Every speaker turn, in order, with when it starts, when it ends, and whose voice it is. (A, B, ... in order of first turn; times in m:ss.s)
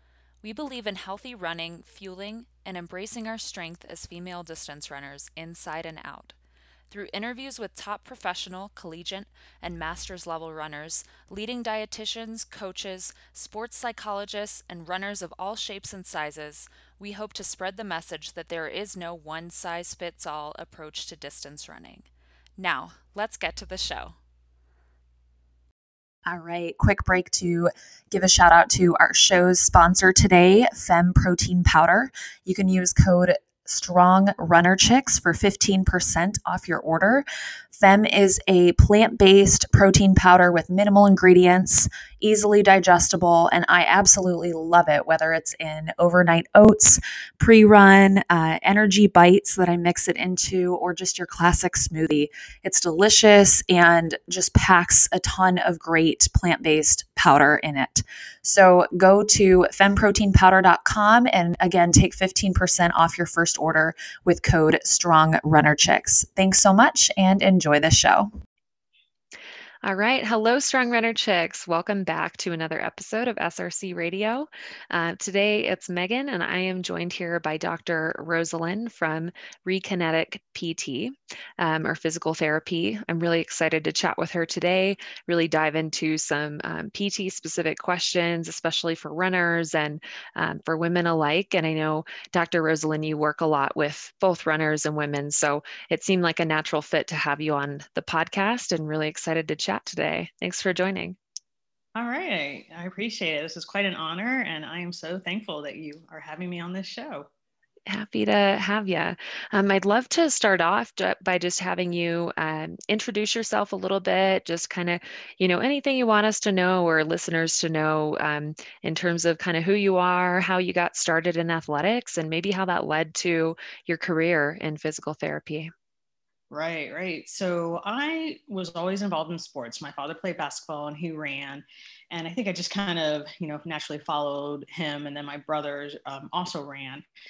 0:00.4-0:06.4 A
0:06.9-0:22.0 A
0:22.6-0:24.2 A
0:26.2-0:37.2 B
0:37.7-1:08.3 B
1:09.8-1:41.2 A
1:41.9-1:47.3 C
1:47.9-2:05.7 A
2:06.5-2:17.0 C